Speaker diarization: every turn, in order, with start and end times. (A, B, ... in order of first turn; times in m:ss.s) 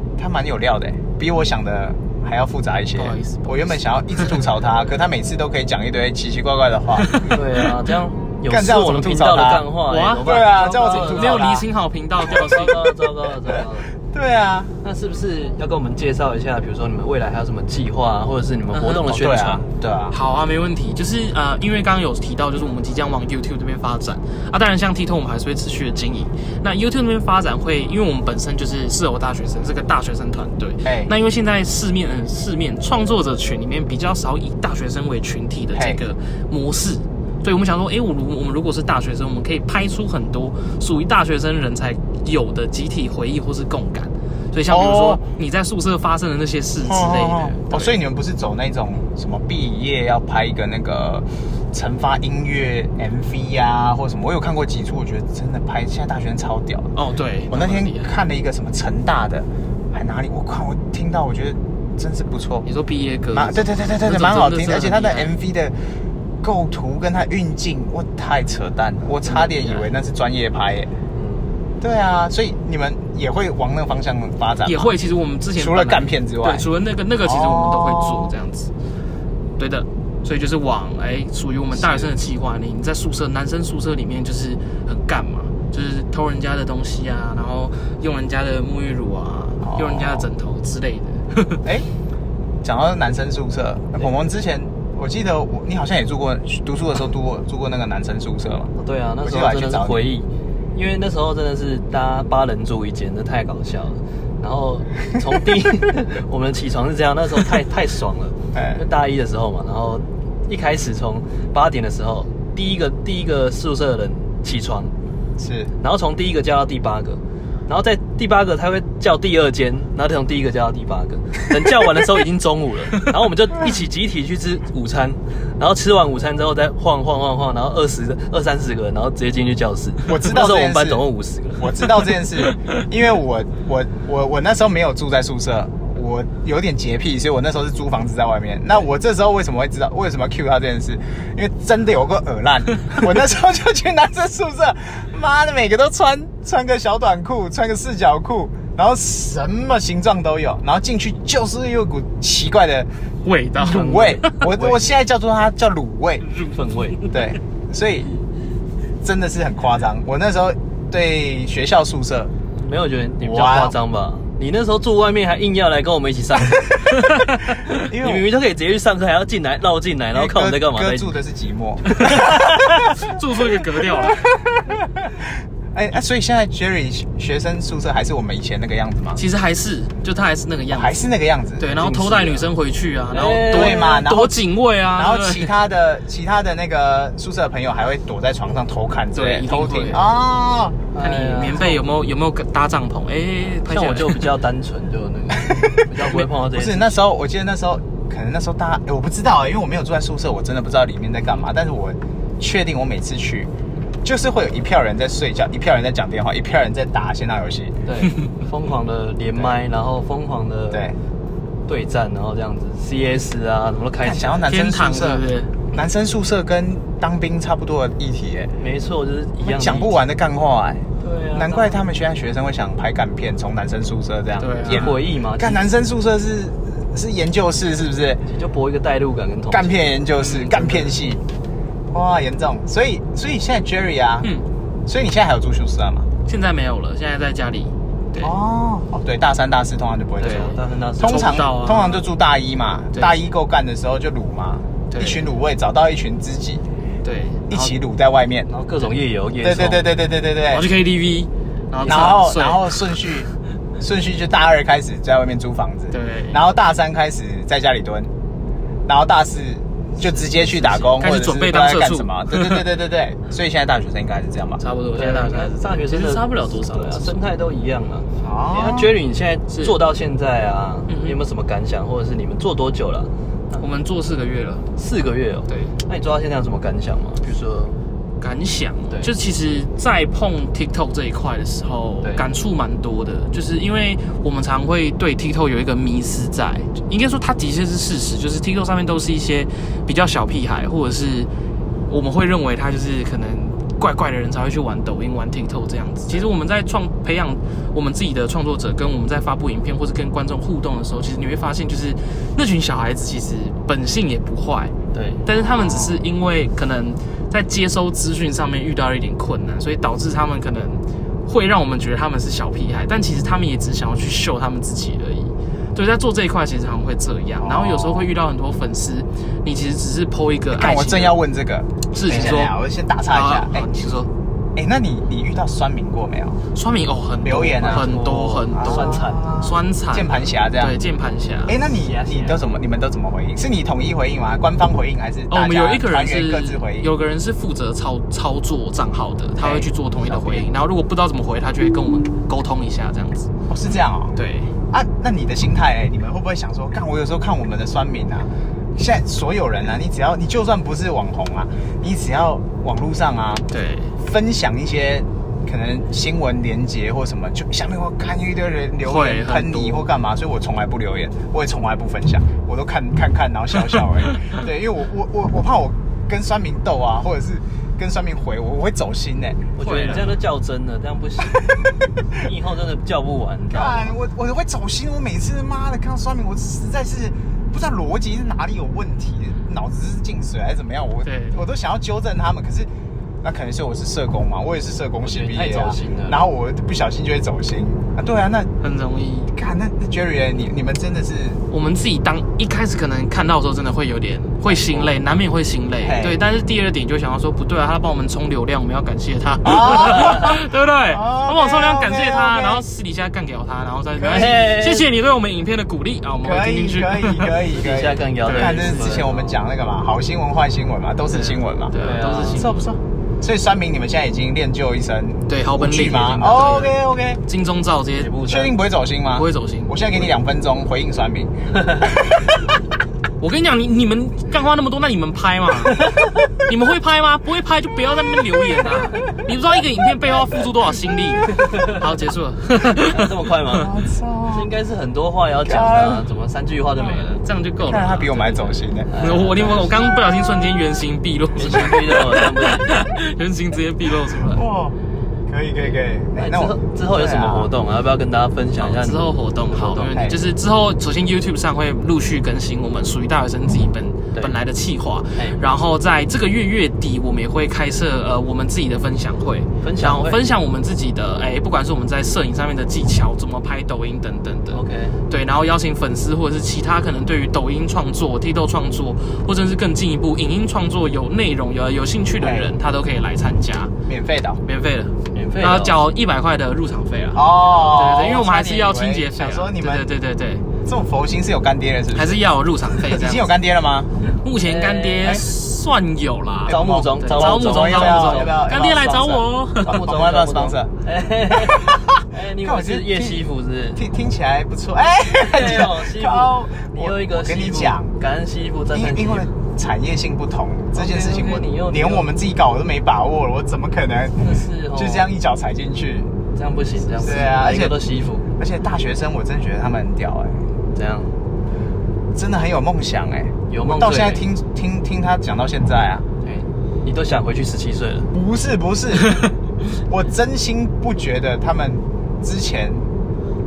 0:00.2-0:07.1 A
0:03.0-0:04.4 B
0:07.0-0:07.4 B
0:07.2-0:11.5 C
0:08.5-0:09.7 A
0:09.8-0:12.8 B
0:10.2-0:11.7 A
0:12.3-0:12.7 A
0:12.3-0:13.9 C
0:13.5-0:14.7 A
0:14.8-0:19.6 C
0:18.7-0:19.2 B
0:19.0-0:20.2 A
0:20.1-0:48.0 B
0:30.8-0:31.1 A
0:35.7-0:36.0 A
0:44.7-0:45.2 A
0:46.8-0:56.9 A
0:56.9-0:58.1 B
0:57.5-1:02.7 A
1:02.6-1:05.3 B
1:03.3-1:05.7 A
1:06.4-1:10.9 A
1:09.2-1:09.9 B
1:11.1-1:11.5 C
1:11.8-1:14.9 A
1:14.6-1:18.7 B
1:15.6-1:16.7 A
1:17.2-1:18.3 A
1:19.6-1:31.6 B
1:21.7-1:22.1 A
1:29.6-1:30.3 A
1:31.6-1:31.9 A
1:32.6-1:40.1 A
1:38.8-1:54.9 C
1:48.5-1:48.8 A
1:55.4-1:55.7 A
1:55.8-2:11.9 C
2:10.0-2:11.0 A
2:11.6-2:32.9 A
2:33.2-2:34.3 B
2:33.6-2:36.2 A
2:33.6-2:34.9 C
2:36.2-2:37.1 C
2:37.1-2:38.1 A
2:39.0-2:42.3 A
2:42.5-2:51.2 C
2:43.2-2:43.8 A
2:47.8-2:48.3 A
2:50.1-2:53.1 A
2:52.0-2:52.4 C
2:53.0-2:54.2 B
2:53.8-2:59.2 A
2:59.2-3:01.0 B
3:00.7-3:01.8 A
3:01.6-3:05.5 B
3:01.7-3:02.5 C
3:03.1-3:04.0 C
3:03.5-3:04.4 A
3:05.0-3:10.8 A
3:09.1-3:10.0 B
3:10.9-3:11.8 C
3:11.0-3:14.3 B
3:13.6-3:17.0 C
3:15.4-3:23.5 A
3:24.0-3:27.8 A
3:27.8-3:30.9 C
3:30.7-3:31.0 A
3:31.7-3:34.5 C
3:34.0-3:38.5 A
3:34.5-3:35.8 B
3:38.6-3:40.0 C
3:39.4-3:48.2 A
3:41.0-3:41.8 C
3:44.4-3:45.0 B
3:44.6-3:45.6 C
3:48.3-3:49.7 C
3:49.5-3:51.2 A
3:50.2-3:50.8 B
3:51.9-3:54.3 A
3:54.8-3:56.1 A
3:56.2-3:58.3 B
3:58.2-4:06.6 A
4:00.2-4:01.4 C
4:00.3-4:02.1 B
4:04.9-4:05.2 B
4:07.0-4:07.7 B
4:07.5-4:08.5 A
4:08.5-4:09.9 C
4:09.4-4:10.7 A
4:10.5-4:12.8 B
4:11.8-4:12.2 C
4:11.8-4:18.1 A
4:15.9-4:16.4 B
4:18.9-4:24.6 A
4:20.0-4:20.9 C
4:20.6-4:22.6 B
4:24.6-4:27.2 B
4:24.9-4:33.6 C
4:28.2-4:29.0 A
4:29.5-4:29.7 B
4:30.9-4:31.2 B
4:33.6-4:34.7 B
4:34.8-4:37.8 C
4:35.5-4:35.7 B
4:38.2-4:51.3 B
4:42.0-4:42.3 C
4:51.9-5:04.7 B
5:04.9-5:05.2 C
5:05.2-5:21.2 B
5:05.3-5:06.1 A
5:17.4-5:18.1 A
5:20.5-5:23.7 A
5:21.9-5:22.5 B
5:23.1-5:24.1 B
5:24.5-5:26.4 A
5:26.5-5:31.6 B
5:27.2-5:30.8 A
5:27.6-5:29.3 C
5:31.4-5:36.9 A
5:31.7-5:32.4 C
5:35.3-5:43.3 B
5:39.4-5:40.5 A
5:43.5-5:44.2 A
5:44.2-5:44.5 B
5:44.7-5:53.5 A
5:53.5-5:53.9 B
5:54.0-6:09.5 A
5:58.8-5:59.9 B
6:09.6-6:11.5 C
6:09.6-6:10.2 B
6:12.1-6:13.9 C
6:13.5-6:22.7 A
6:21.0-6:21.4 B
6:23.2-6:28.5 A
6:25.0-6:26.2 C
6:28.6-6:29.3 B
6:29.3-6:31.4 A
6:31.5-6:47.6 B
6:34.5-6:35.0 A
6:35.8-6:36.2 A
6:39.4-6:42.6 A
6:39.9-6:40.2 C
6:44.0-6:44.4 A
6:44.0-6:44.9 C
6:46.2-6:51.8 A
6:47.5-6:49.3 C
6:48.2-6:49.3 B
6:51.1-6:52.7 B
6:51.7-6:52.5 C
6:52.3-6:57.2 A
6:55.3-6:58.2 B
6:57.9-6:58.6 C
6:58.2-7:02.5 A
6:59.1-6:59.7 B
7:03.2-7:13.3 B
7:11.2-7:11.8 C
7:12.8-7:13.7 C
7:13.5-7:14.5 A
7:14.3-7:17.2 C
7:15.4-7:16.0 A
7:16.8-7:24.4 B
7:17.6-7:18.9 A
7:18.9-7:19.8 C
7:21.4-7:23.0 C
7:24.3-7:24.8 A
7:25.3-7:27.5 A
7:26.2-7:29.9 C
7:28.6-7:53.7 B
7:29.8-7:30.2 A
7:35.1-7:35.4 C
7:39.6-7:40.2 C
7:44.5-7:45.0 C
7:52.2-7:52.6 A
7:53.9-7:54.4 A
7:54.4-8:00.4 B
7:55.1-7:55.8 C
7:57.1-7:59.8 A
8:00.6-8:03.9 A
8:01.9-8:03.3 B
8:04.2-8:09.8 B
8:04.4-8:05.2 C
8:06.5-8:08.3 C
8:06.5-8:10.7 A
8:09.6-8:13.8 C
8:11.3-8:11.8 A
8:12.4-8:13.2 A
8:13.7-8:17.9 A
8:15.1-8:19.3 C
8:18.7-8:26.1 A
8:20.7-8:22.1 C
8:24.2-8:25.1 C
8:26.3-8:28.3 C
8:27.0-8:27.8 A
8:28.4-8:30.4 A
8:30.7-8:31.1 C
8:32.1-8:36.0 A
8:33.5-8:34.2 C
8:36.2-8:38.1 C
8:38.1-8:39.2 A
8:39.8-8:42.9 A